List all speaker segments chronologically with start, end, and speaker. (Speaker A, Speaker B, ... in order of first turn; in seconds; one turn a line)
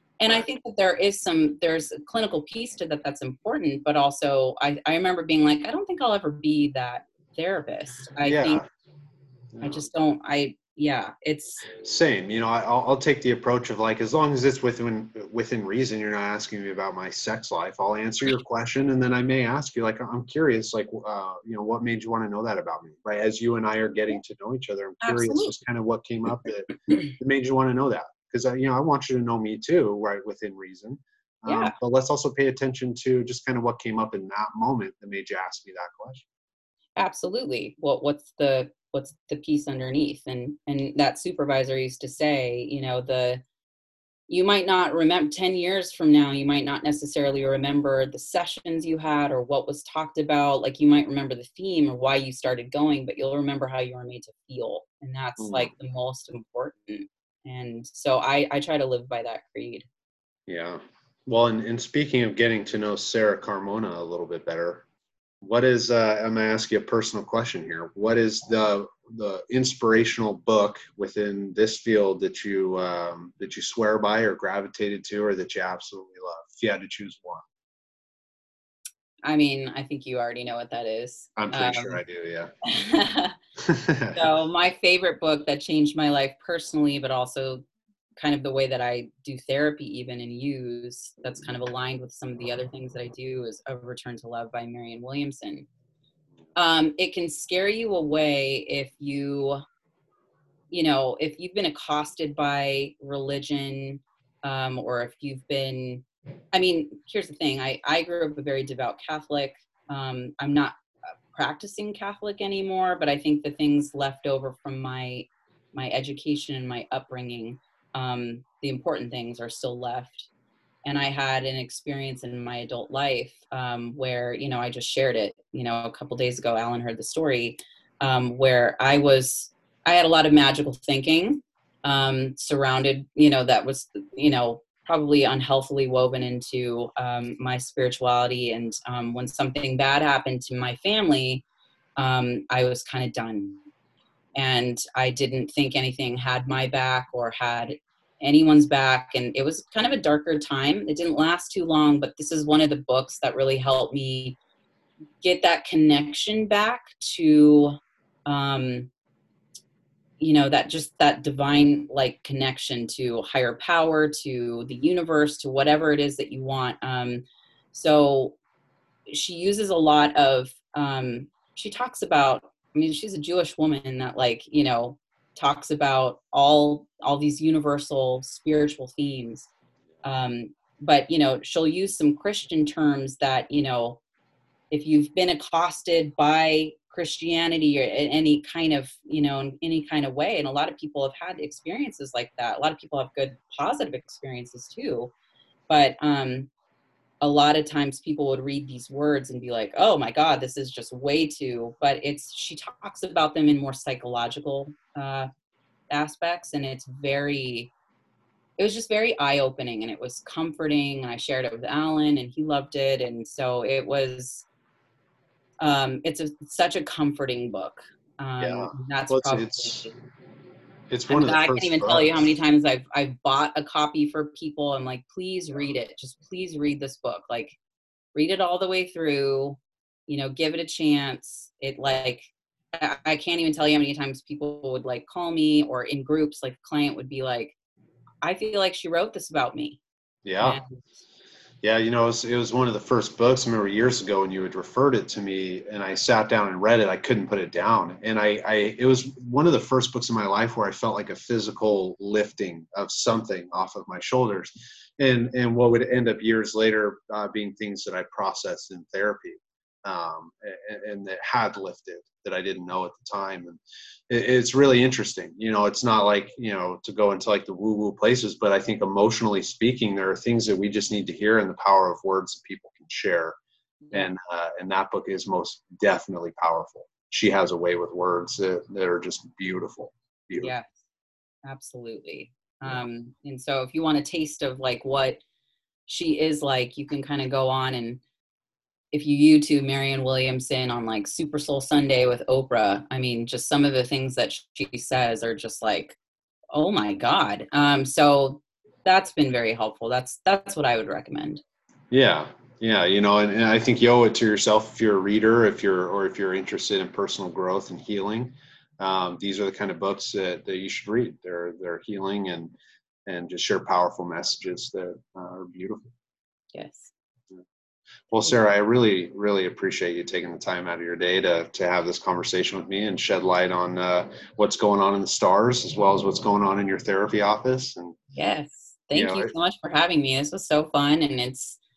Speaker A: 0.2-8.6
Speaker B: 8.2-8.6
Speaker B: 9.5-9.9
Speaker A: 9.6-11.6
Speaker B: 11.7-36.2
Speaker A: 25.0-25.6
Speaker A: 31.5-31.7
Speaker A: 37.0-43.4
Speaker A: 44.3-59.9
Speaker B: 55.4-55.7
Speaker B: 60.5-64.8
Speaker B: 65.4-77.4
Speaker A: 79.2-82.0
Speaker B: 81.3-82.5
Speaker A: 82.6-83.3
Speaker B: 83.6-84.2
Speaker A: 84.1-87.6
Speaker A: 88.2-95.7
Speaker A: 96.5-99.6
Speaker A: 100.7-110.8
Speaker A: 111.3-120.3
Speaker A: 120.8-141.4
Speaker A: 142.0-143.6
Speaker A: 144.3-154.4
Speaker A: 155.2-158.9
Speaker A: 160.2-168.3
Speaker A: 169.1-179.5
Speaker A: 180.0-184.0
Speaker A: 184.7-195.1
Speaker A: 195.7-196.5
Speaker A: 197.2-205.3
Speaker A: 205.9-207.7
Speaker A: 208.6-214.4
Speaker A: 215.6-219.9
Speaker B: 218.4-219.9
Speaker B: 220.9-222.2
Speaker A: 221.1-227.6
Speaker A: 228.1-237.5
Speaker A: 238.2-239.8
Speaker B: 240.2-240.6
Speaker A: 240.4-240.8
Speaker B: 241.6-273.4
Speaker B: 273.9-280.5
Speaker A: 280.4-280.8
Speaker A: 281.4-285.2
Speaker A: 285.9-288.0
Speaker A: 288.9-295.9
Speaker A: 296.5-301.4
Speaker B: 301.9-312.5
Speaker B: 313.1-315.9
Speaker A: 316.5-316.9
Speaker B: 318.1-328.0
Speaker A: 328.1-331.6
Speaker B: 328.9-329.3